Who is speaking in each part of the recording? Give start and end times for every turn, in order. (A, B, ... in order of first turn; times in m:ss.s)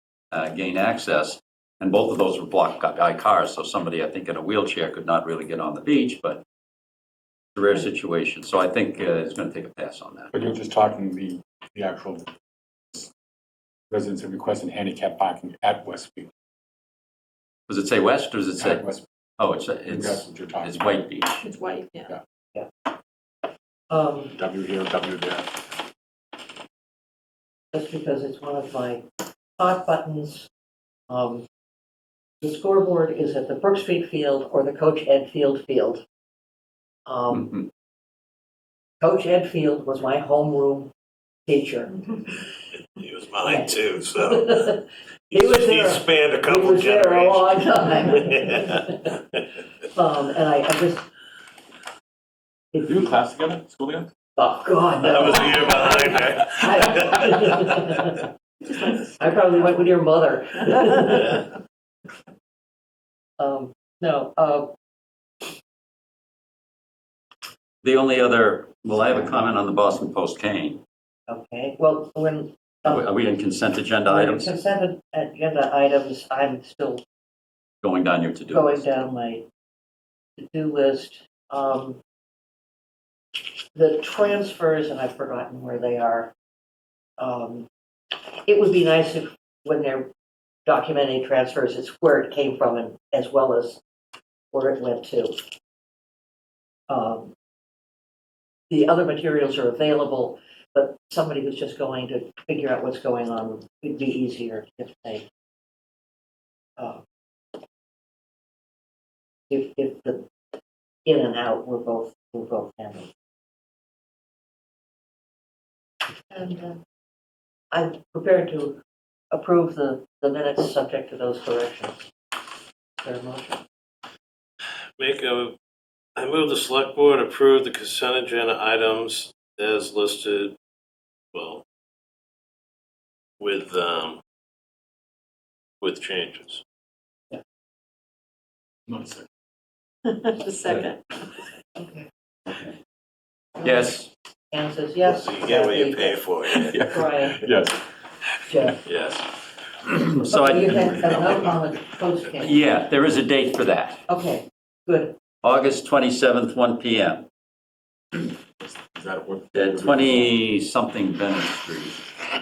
0:00.3-0:06.4 A
0:07.6-0:10.3 A
0:10.3-0:12.3 B
0:13.9-0:16.3 B
0:17.7-0:18.8 A
0:18.6-0:19.0 B
0:19.4-0:21.4 A
0:19.9-0:20.8 B
0:21.4-0:22.1 C
0:23.9-0:24.4 D
0:24.4-0:25.5 B
0:27.7-0:29.1 D
0:29.6-0:30.5 D
0:31.1-0:31.4 D
0:32.4-0:36.0 D
0:37.1-0:37.5 D
0:37.3-0:37.6 A
0:39.0-0:40.9 D
0:41.5-0:42.4 D
0:43.0-0:44.8 E
0:43.4-0:49.2 D
0:45.3-0:48.6 E
0:50.0-0:51.1 D
0:52.7-0:53.1 D
0:52.8-0:54.1 B
0:54.4-0:58.3 D
0:55.0-0:57.5 E
0:58.7-0:59.1 C
0:59.2-1:01.5 D
1:03.4-1:04.7 D
1:07.8-1:10.8 A
1:11.3-1:13.1 D
1:12.8-1:14.6 A
1:14.1-1:17.0 D
1:17.8-1:18.8 A
1:18.5-1:19.4 D
1:20.4-1:22.0 D
1:23.7-1:26.3 D
1:27.2-1:27.7 D
1:28.4-1:30.1 D
1:30.7-1:33.8 D
1:34.5-1:35.4 D
1:36.9-1:37.3 D
1:38.7-1:45.3 D
1:49.5-1:50.3 D
1:51.0-1:53.1 D
1:56.3-1:56.8 D
1:57.7-1:58.8 D
1:59.3-2:02.1 D
2:03.0-2:03.6 D
2:05.0-2:05.6 E
2:06.2-2:10.6 E
2:11.3-2:11.6 E
2:13.4-2:14.2 E
2:15.8-2:16.6 E
2:18.9-2:19.3 B
2:20.1-2:21.0 C
2:21.8-2:22.1 D
2:23.6-2:24.1 A
2:24.5-2:27.4 D
2:25.0-2:26.8 E
2:26.7-2:27.8 B
2:28.5-2:28.8 D
2:28.9-2:29.3 E
2:29.9-2:31.5 A
2:30.3-2:32.6 D
2:32.4-2:34.0 A
2:34.1-2:35.2 D
2:35.4-2:37.3 A
2:38.6-2:40.3 B
2:39.5-2:42.0 A